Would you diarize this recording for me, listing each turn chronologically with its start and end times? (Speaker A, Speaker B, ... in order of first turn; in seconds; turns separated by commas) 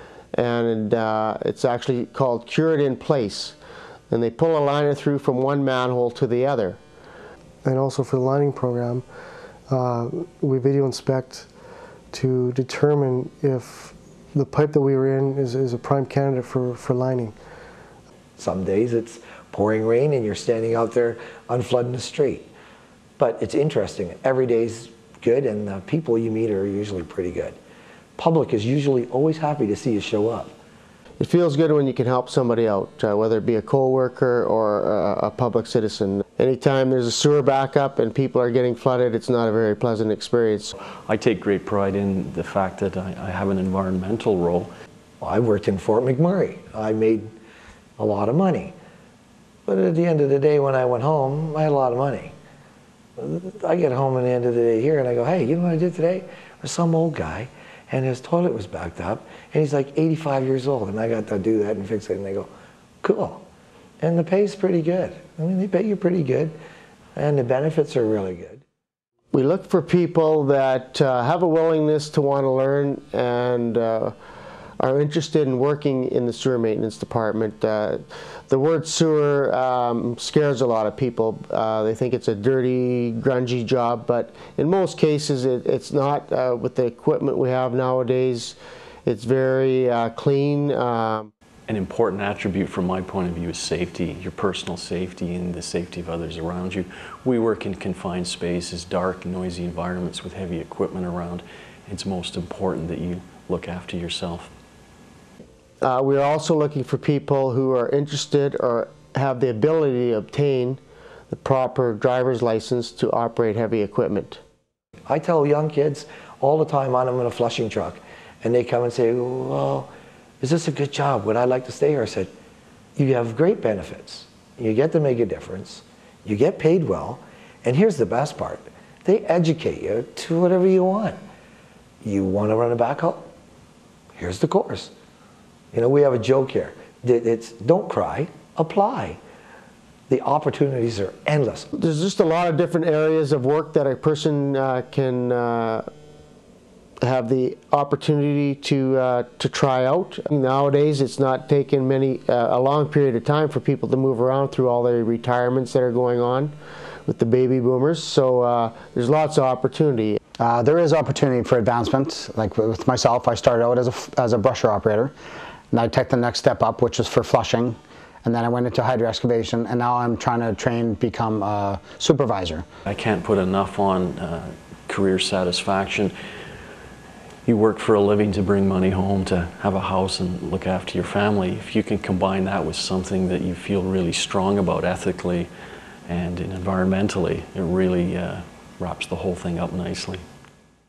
Speaker A: 0.3-3.6, Speaker A: 4.1-6.8, Speaker B: 7.6-9.1, Speaker B: 9.7-11.5, Speaker B: 12.1-17.4, Speaker C: 18.4-22.5, Speaker C: 23.2-27.6, Speaker C: 28.2-30.5, Speaker A: 31.2-40.8, Speaker D: 41.1-44.7, Speaker C: 45.2-47.3, Speaker C: 48.0-48.8, Speaker C: 49.7-52.3, Speaker C: 53.2-62.5, Speaker C: 63.0-63.4, Speaker C: 64.0-66.5, Speaker C: 67.2-68.6, Speaker A: 69.3-74.1, Speaker A: 74.8-91.3, Speaker D: 91.7-104.5, Speaker A: 105.8-114.4, Speaker C: 115.1-122.3, Speaker C: 123.0-131.2, Speaker C: 132.0-133.3, Speaker C: 134.2-134.9, Speaker C: 135.7-139.2, Speaker C: 140.1-141.7, Speaker A: 141.7-145.9, Speaker A: 147.0-156.6, Speaker A: 157.1-160.2, Speaker E: 160.4-165.1, Speaker E: 165.7-172.7, Speaker D: 172.9-176.1, Speaker D: 177.5-185.5, Speaker D: 186.1-190.2